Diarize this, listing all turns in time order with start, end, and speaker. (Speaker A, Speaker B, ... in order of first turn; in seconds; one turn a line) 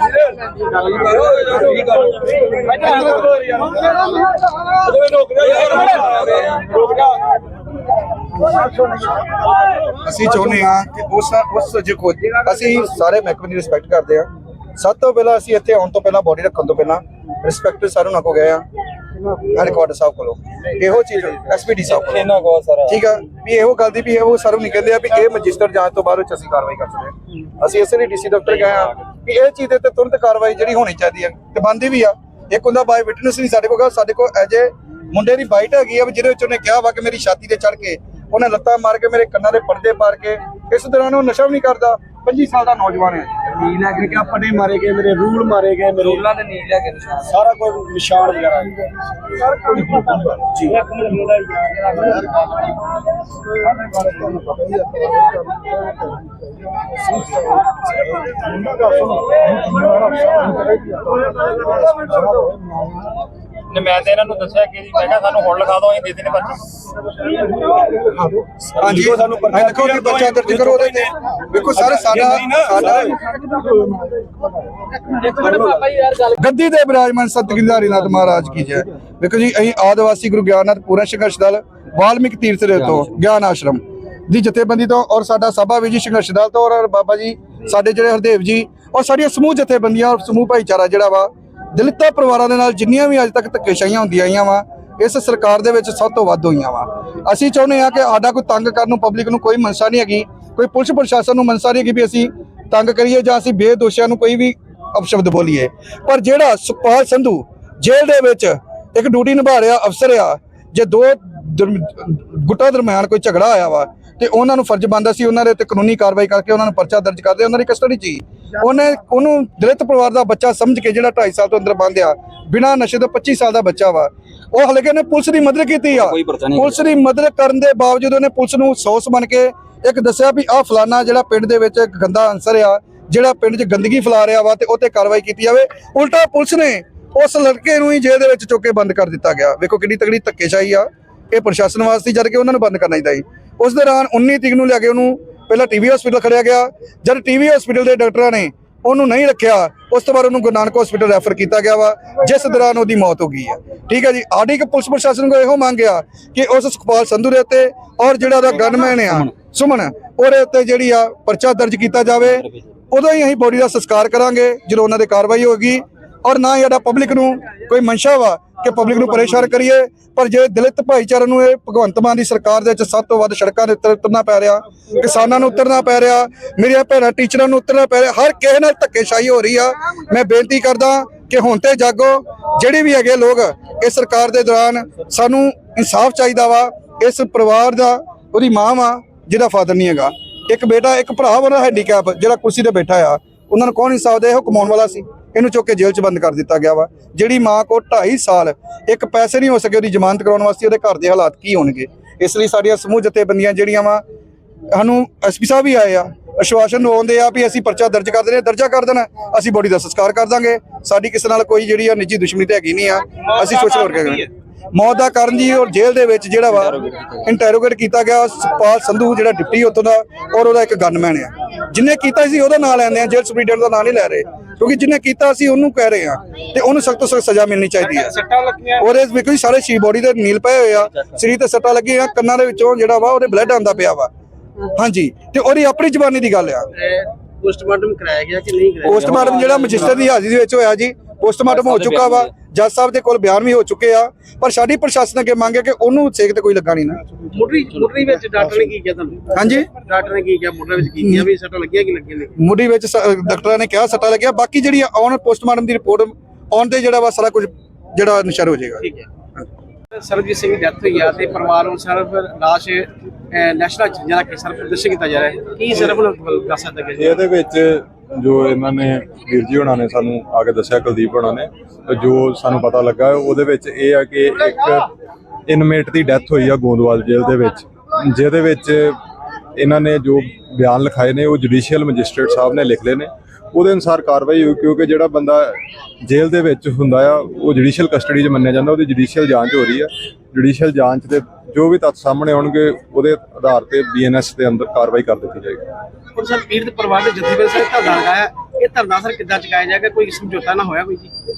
Speaker A: 1.0-3.8
Speaker A: 4.8-7.1
Speaker B: 10.0-18.6
Speaker B: 19.5-22.3
Speaker C: 21.9-23.0
Speaker B: 22.9-43.3
Speaker A: 43.5-48.7
Speaker A: 49.8-51.1
Speaker D: 63.8-66.6
Speaker A: 68.2-71.1
Speaker B: 68.8-73.1
Speaker A: 71.8-73.2
Speaker A: 75.3-75.9
Speaker B: 76.2-204.0
Speaker A: 126.0-126.8
Speaker B: 204.7-228.1
Speaker E: 213.2-214.3
Speaker A: 216.7-217.2
Speaker E: 227.8-228.9
Speaker B: 228.8-234.1
Speaker B: 234.7-236.7
Speaker E: 236.7-239.8
Speaker B: 238.8-247.0
Speaker A: 241.6-242.3
Speaker E: 247.3-252.3
Speaker B: 249.3-249.7
Speaker B: 251.0-251.2
Speaker B: 252.4-258.8
Speaker E: 258.8-259.1
Speaker E: 259.9-267.2
Speaker C: 267.0-274.9
Speaker C: 275.5-278.9
Speaker C: 279.6-295.6
Speaker E: 296.1-301.1